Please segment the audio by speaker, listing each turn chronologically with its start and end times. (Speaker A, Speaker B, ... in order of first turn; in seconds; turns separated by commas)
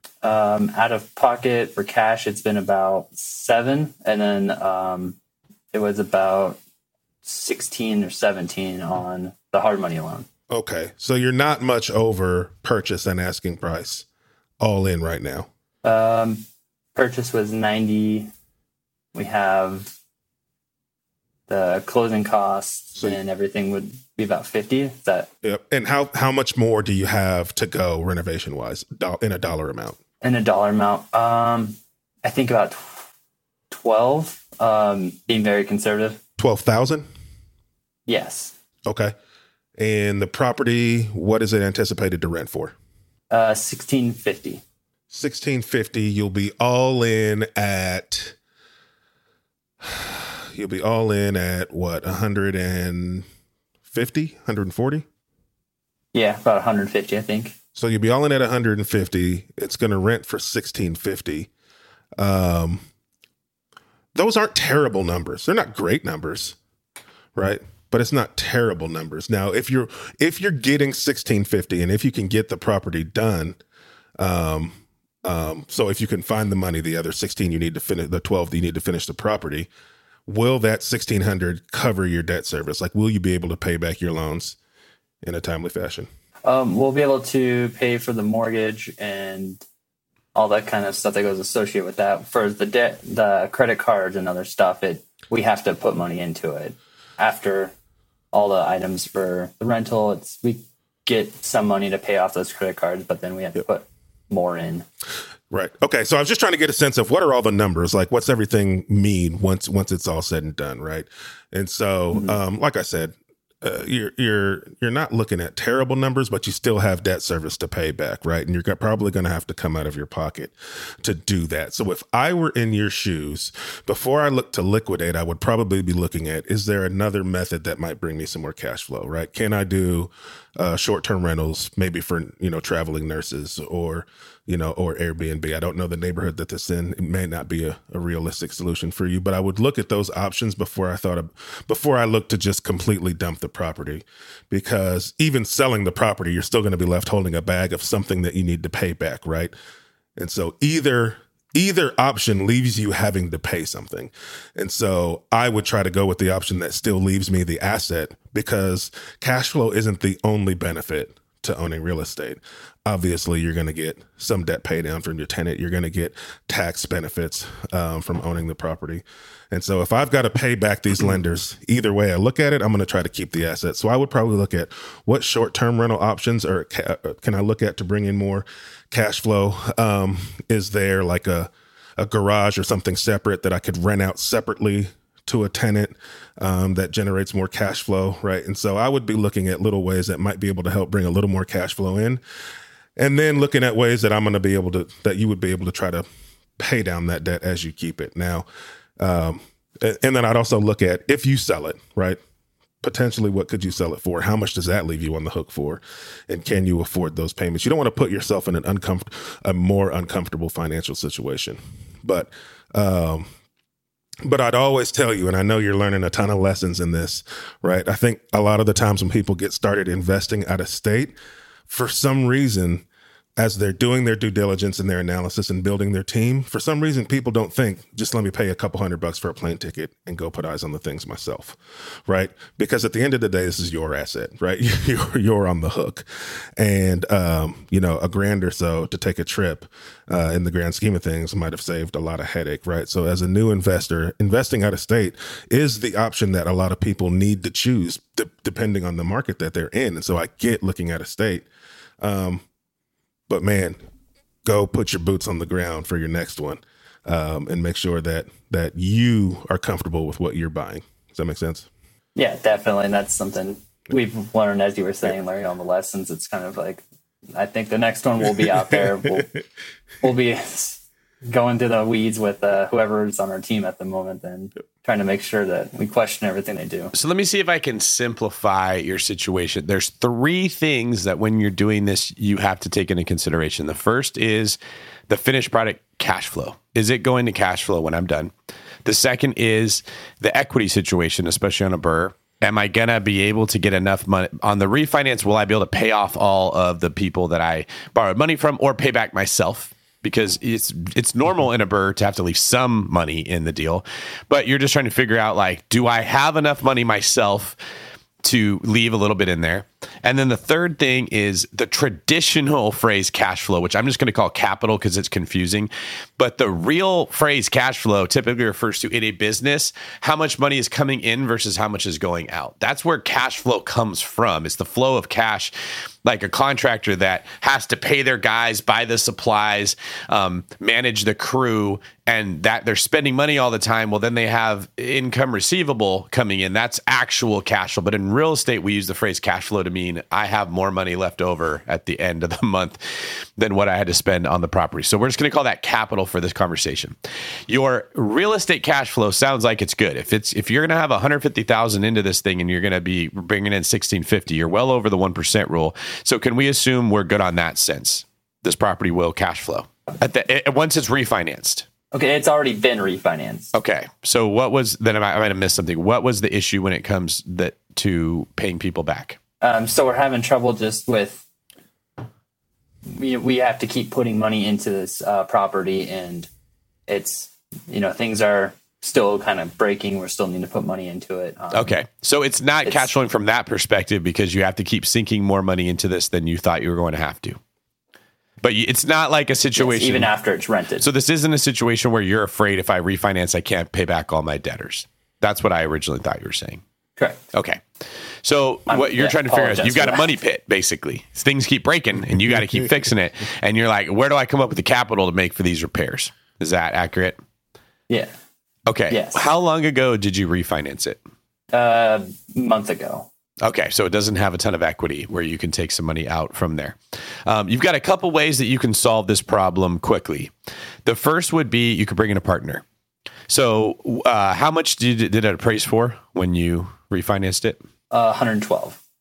Speaker A: 0.2-5.2, Speaker A: 5.7-6.6, Speaker A: 7.2-10.3, Speaker B: 10.5-14.1, Speaker B: 14.6-15.5, Speaker A: 15.8-16.4, Speaker A: 16.9-18.3, Speaker A: 19.1-19.9, Speaker A: 21.5-25.3, Speaker B: 25.4-30.0, Speaker A: 30.2-33.0, Speaker A: 33.7-36.2, Speaker B: 36.4-37.1, Speaker A: 38.1-38.5, Speaker B: 38.9-39.1, Speaker B: 39.8-42.7, Speaker A: 43.3-44.6, Speaker B: 45.1-48.4, Speaker B: 49.8-53.2, Speaker B: 53.9-55.0, Speaker A: 56.1-57.5, Speaker B: 57.7-61.5, Speaker B: 62.2-62.9, Speaker B: 64.1-66.6, Speaker B: 67.3-73.6, Speaker B: 74.2-79.7, Speaker B: 80.3-84.6, Speaker B: 85.2-86.1, Speaker A: 86.4-89.6, Speaker A: 90.3-97.7, Speaker A: 98.3-104.8, Speaker B: 105.5-149.5, Speaker B: 150.2-192.2, Speaker B: 193.0-196.0, Speaker B: 196.6-198.4, Speaker B: 199.0-202.2, Speaker B: 202.8-213.3, Speaker B: 214.2-221.2, Speaker B: 221.7-222.8, Speaker B: 223.4-236.0, Speaker B: 236.6-251.5, Speaker B: 252.0-252.4, Speaker B: 253.3-253.8, Speaker B: 254.4-261.7, Speaker A: 262.1-266.8, Speaker A: 267.3-269.3, Speaker A: 270.0-276.9, Speaker C: 276.9-288.3, Speaker C: 288.8-307.6, Speaker C: 308.2-325.5, Speaker C: 326.0-342.8, Speaker C: 343.4-346.9, Speaker C: 347.5-361.6, Speaker A: 361.9-363.5, Speaker C: 363.5-369.2, Speaker A: 369.4-371.2, Speaker A: 372.9-376.3, Speaker A: 376.9-381.8, Speaker C: 381.5-387.4, Speaker A: 382.6-382.9, Speaker C: 388.4-390.1, Speaker A: 389.6-390.9, Speaker C: 390.8-396.6, Speaker A: 397.0-397.2, Speaker C: 397.3-397.6, Speaker C: 398.2-407.2, Speaker A: 398.7-400.1, Speaker A: 407.9-408.1, Speaker C: 408.7-411.0, Speaker A: 408.9-409.3, Speaker A: 411.5-413.1, Speaker C: 413.4-420.3, Speaker C: 420.9-422.6, Speaker C: 423.3-427.6, Speaker A: 427.9-428.8